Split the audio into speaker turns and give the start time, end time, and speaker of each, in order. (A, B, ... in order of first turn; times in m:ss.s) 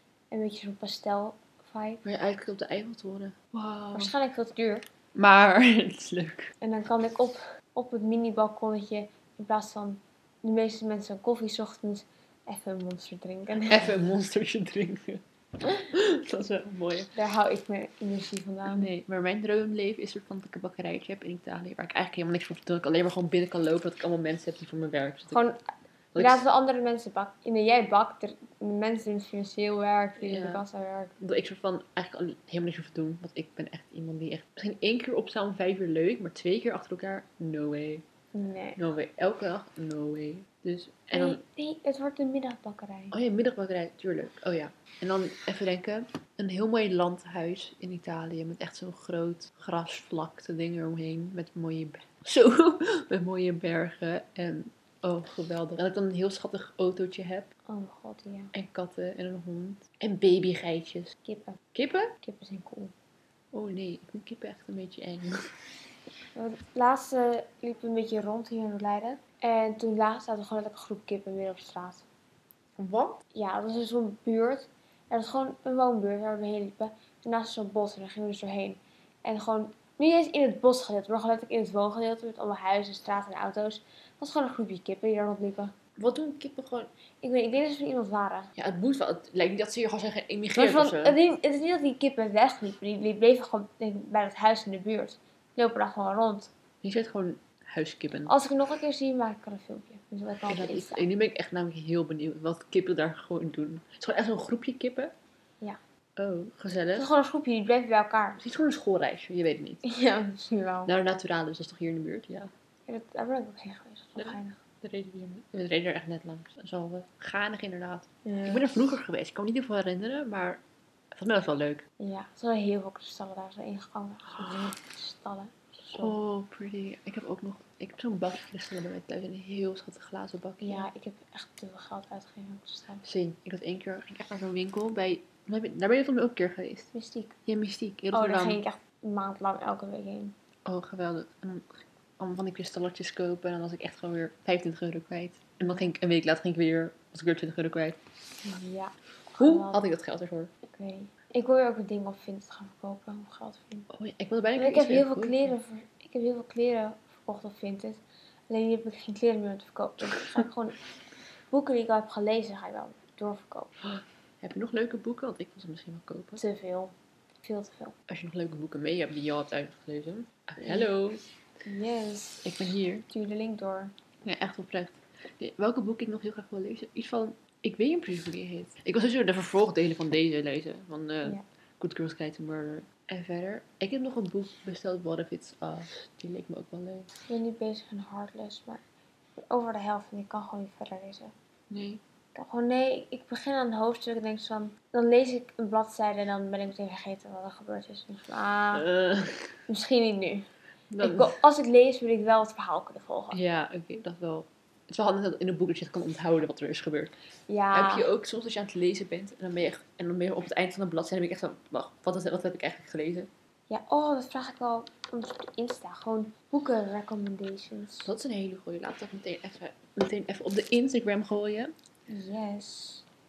0:00.3-0:02.0 A
0:02.0-0:04.1 B
0:04.0-0:04.8 A
0:05.2-0:06.5 B
0:06.6-0:13.9 A
0:13.6-0:15.2 B
0:15.8-0:17.1 B
0:17.1-0:18.9 A
0:18.7-0:25.4 B
0:25.3-0:25.6 A
0:26.1-0:26.4 B
0:26.2-0:31.1 A
0:30.2-0:30.6 B
0:31.2-0:38.0 B
0:38.3-0:38.8 A
0:38.8-0:41.4 B
0:41.1-0:43.1 A
0:43.1-0:57.5 B
0:57.7-0:58.5 A
0:58.5-1:01.1 B
1:01.2-1:01.6 A
1:01.8-1:02.1 B
1:02.2-1:02.9 A
1:03.5-1:05.4 B
1:06.4-1:12.1 A
1:12.8-1:13.2 B
1:13.3-1:25.7 A
1:26.0-1:26.9 B
1:27.2-1:28.5 A
1:28.6-1:31.2 B
1:30.6-1:36.5 A
1:36.8-1:38.3 B
1:38.3-1:41.1 A
1:40.5-1:45.1 B
1:46.2-1:47.1 B
1:47.0-1:48.4 A
1:48.4-1:49.8 B
1:49.8-1:50.9 A
1:50.9-1:52.5 B
1:52.9-1:54.6 A
1:54.2-2:00.6 B
1:58.2-1:58.7 A
2:01.2-2:01.8 B
2:02.0-2:06.2 A
2:05.9-2:10.9 B
2:10.6-2:13.1 A
2:13.0-2:16.9 B
2:16.9-2:17.4 A
2:17.5-2:18.6 B
2:18.1-2:20.3 A
2:20.7-2:28.0 B
2:28.4-2:29.8 A
2:29.4-2:30.5 B
2:30.7-2:33.9 A
2:33.9-2:35.5 B
2:34.6-2:40.8 A
2:40.1-2:40.4 B
2:41.5-2:43.7 A
2:43.8-2:46.4 B
2:46.4-2:46.9 A
2:47.4-2:48.0 A
2:48.1-2:51.2 B
2:51.6-2:52.5 A
2:52.4-2:53.1 B
2:53.1-2:53.9 A
2:54.2-3:07.1 B
3:07.3-3:08.8 A
3:09.4-3:11.3 A
3:11.7-3:12.0 B
3:12.4-3:18.9 A
3:18.8-3:19.5 B
3:19.7-3:20.5 A
3:20.9-3:21.4 B
3:21.0-3:23.4 A
3:23.3-3:27.1 B
3:27.5-3:28.1 A
3:27.7-3:33.3 B
3:33.7-3:38.1 A
3:38.0-3:41.7 B
3:42.1-3:43.0 A